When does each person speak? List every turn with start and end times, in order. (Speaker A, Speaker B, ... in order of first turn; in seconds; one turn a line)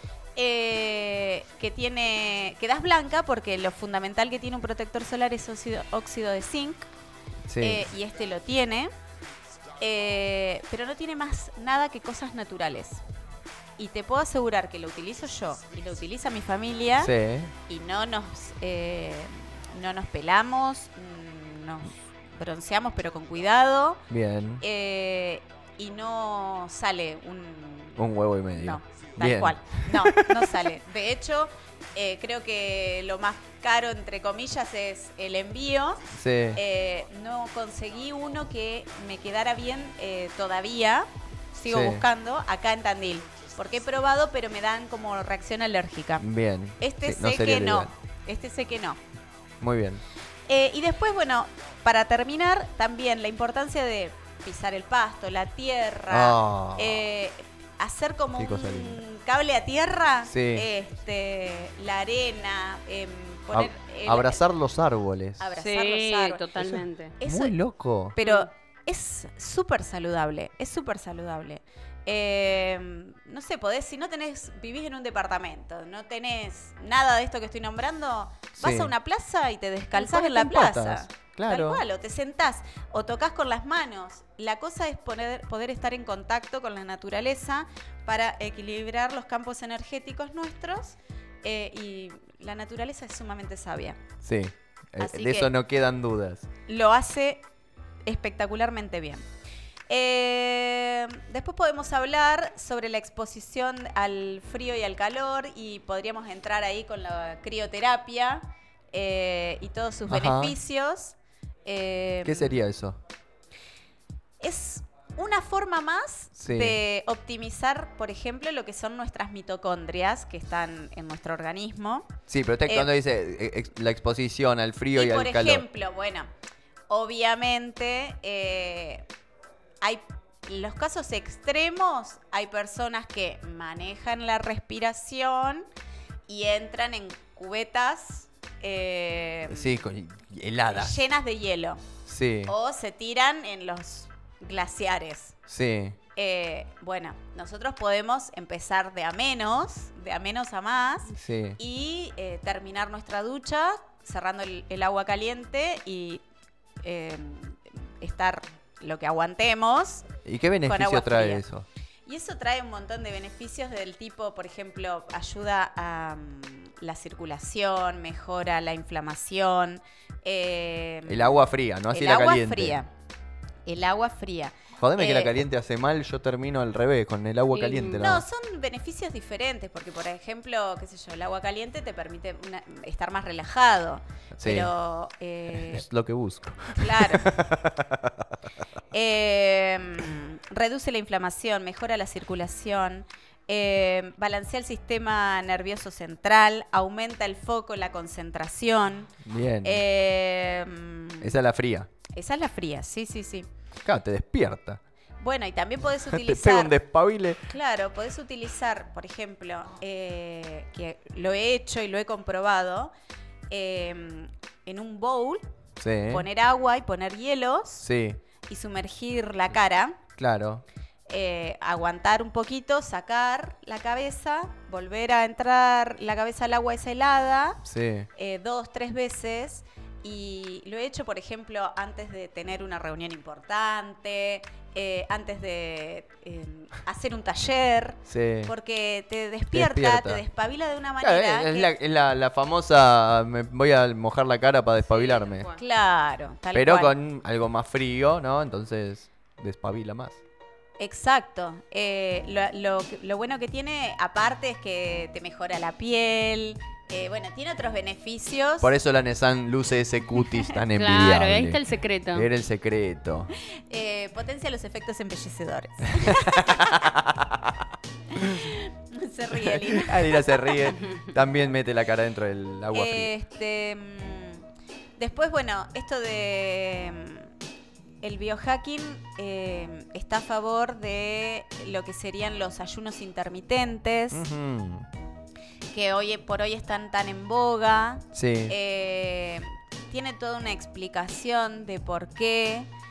Speaker A: 0.4-6.9
Speaker B: 7.5-7.9
Speaker A: 7.6-8.9
Speaker A: 9.8-13.0
Speaker A: 13.8-17.1
Speaker B: 17.0-17.5
Speaker A: 17.7-24.0
Speaker B: 24.1-24.6
Speaker A: 24.6-46.2
Speaker B: 28.0-30.6
Speaker B: 36.1-36.6
Speaker B: 41.7-42.1
Speaker B: 46.2-47.9
Speaker A: 46.8-49.0
Speaker B: 49.6-50.0
Speaker A: 50.5-64.4
Speaker B: 56.1-57.1
Speaker B: 58.4-59.0
Speaker B: 60.3-60.7
Speaker B: 63.5-65.5
Speaker A: 65.4-66.5
Speaker C: 65.6-67.2
Speaker B: 66.6-68.2
Speaker A: 67.2-67.6
Speaker A: 68.2-94.0
Speaker C: 68.2-68.5
Speaker B: 78.6-78.9
Speaker B: 80.0-81.8
Speaker B: 94.2-96.5
Speaker A: 95.0-95.5
Speaker A: 96.7-97.5
Speaker A: 98.0-99.2
Speaker A: 99.9-112.6
Speaker B: 110.1-110.6
Speaker B: 112.2-113.0
Speaker A: 114.4-122.1
Speaker B: 116.4-116.8
Speaker B: 122.3-125.7
Speaker A: 124.9-126.3
Speaker A: 126.9-129.1
Speaker A: 129.8-135.7
Speaker A: 136.3-139.8
Speaker B: 139.5-141.1
Speaker A: 140.7-141.8
Speaker B: 142.1-142.5
Speaker A: 142.5-145.4
Speaker B: 145.5-146.0
Speaker A: 146.2-156.2
Speaker B: 151.1-151.6
Speaker A: 156.8-160.1
Speaker B: 160.2-161.7
Speaker A: 160.6-161.4
Speaker A: 162.1-172.9
Speaker B: 171.1-172.8
Speaker A: 173.7-175.4
Speaker B: 174.8-178.2
Speaker C: 177.5-178.0
Speaker A: 178.0-185.9
Speaker B: 184.3-184.7
Speaker B: 185.6-188.3
Speaker A: 186.8-187.4
Speaker A: 188.9-199.1
Speaker B: 199.2-199.8
Speaker A: 199.6-201.4
Speaker B: 201.2-201.9
Speaker A: 202.1-203.5
Speaker B: 203.9-204.8
Speaker A: 205.2-206.8
Speaker B: 206.1-207.5
Speaker A: 207.5-212.9
Speaker A: 213.5-215.4
Speaker B: 215.8-216.2
Speaker A: 216.1-217.9
Speaker B: 217.8-218.2
Speaker A: 218.5-220.0
Speaker B: 220.2-220.6
Speaker A: 221.1-227.6
Speaker B: 227.7-228.1
Speaker A: 228.2-241.7
Speaker B: 238.1-238.5
Speaker B: 239.5-240.2
Speaker B: 241.0-245.5
Speaker C: 244.9-245.6
Speaker A: 245.5-247.0
Speaker B: 246.5-250.2
Speaker A: 250.8-258.7
Speaker B: 258.6-261.6
Speaker C: 260.7-262.3
Speaker B: 262.1-263.3
Speaker A: 263.4-266.9
Speaker B: 265.9-267.5
Speaker A: 268.1-270.8
Speaker B: 269.4-273.1
Speaker A: 272.7-274.5
Speaker A: 275.0-277.3
Speaker A: 278.0-284.3
Speaker B: 284.1-284.9
Speaker A: 285.7-292.7
Speaker B: 288.1-288.6